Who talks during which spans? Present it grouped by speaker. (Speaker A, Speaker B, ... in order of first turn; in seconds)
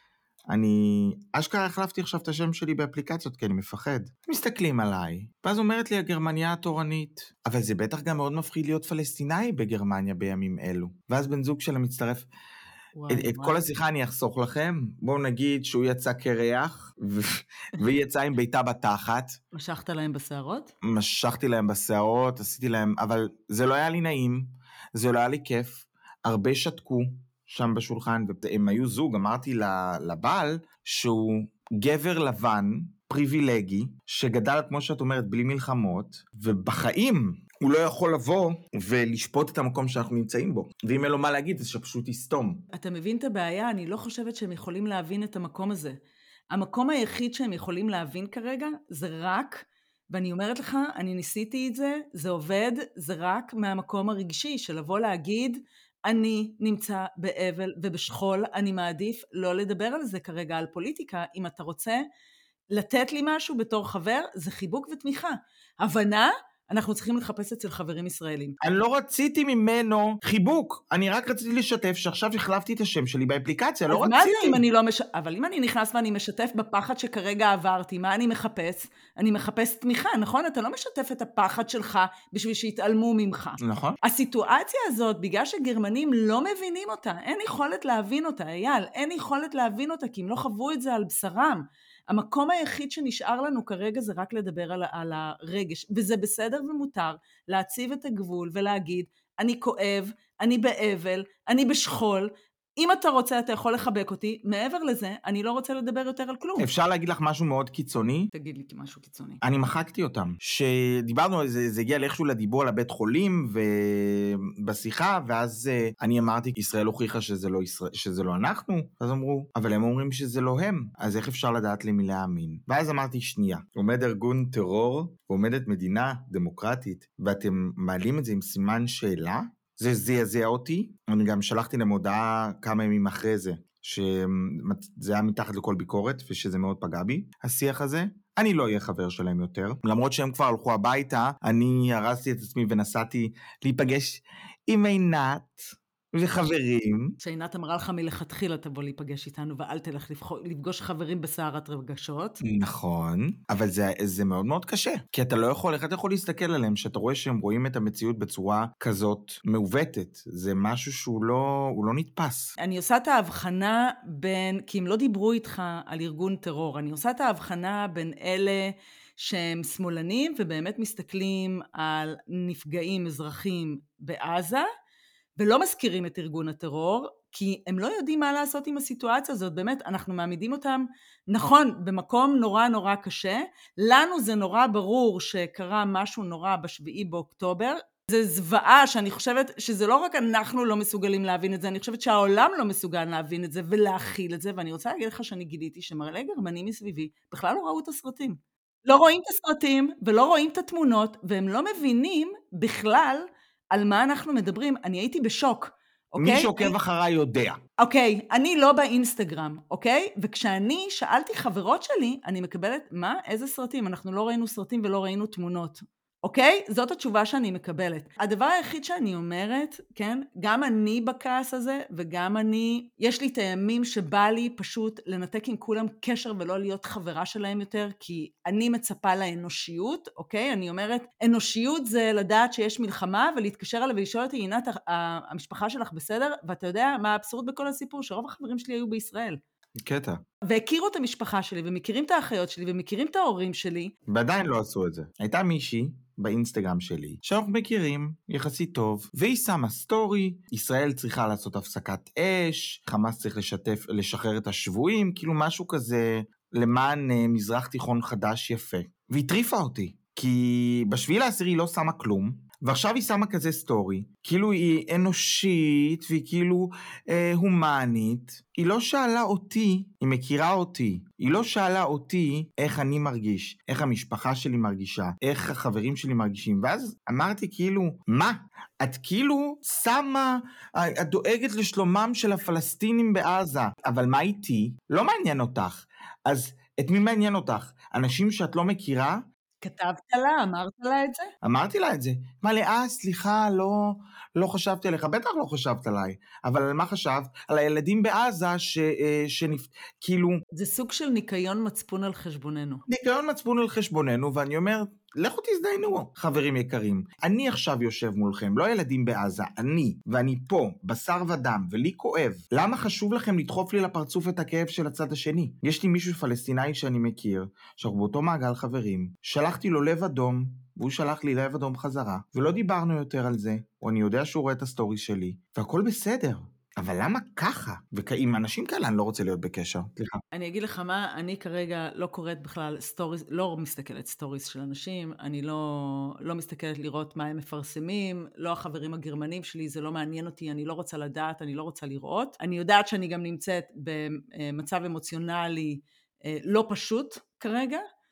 Speaker A: 0.5-12.3, 13.1-19.4, 20.8-42.6, 68.6-74.6, 83.6-84.0, 106.6-108.3, 109.4-147.2, 152.4-162.5, 206.2-207.6, 239.8-240.2, 244.1-289.2, 291.4-300.4, 302.9-330.2
Speaker B: 12.9-13.6, 19.5-20.7, 42.7-46.0, 46.5-62.0, 62.7-68.5, 73.9-106.7, 108.3-109.4, 147.2-152.4, 162.6-174.7, 175.4-206.8, 207.8-239.4, 240.5-243.9, 289.6-291.3, 300.5-302.8, 330.3-347.8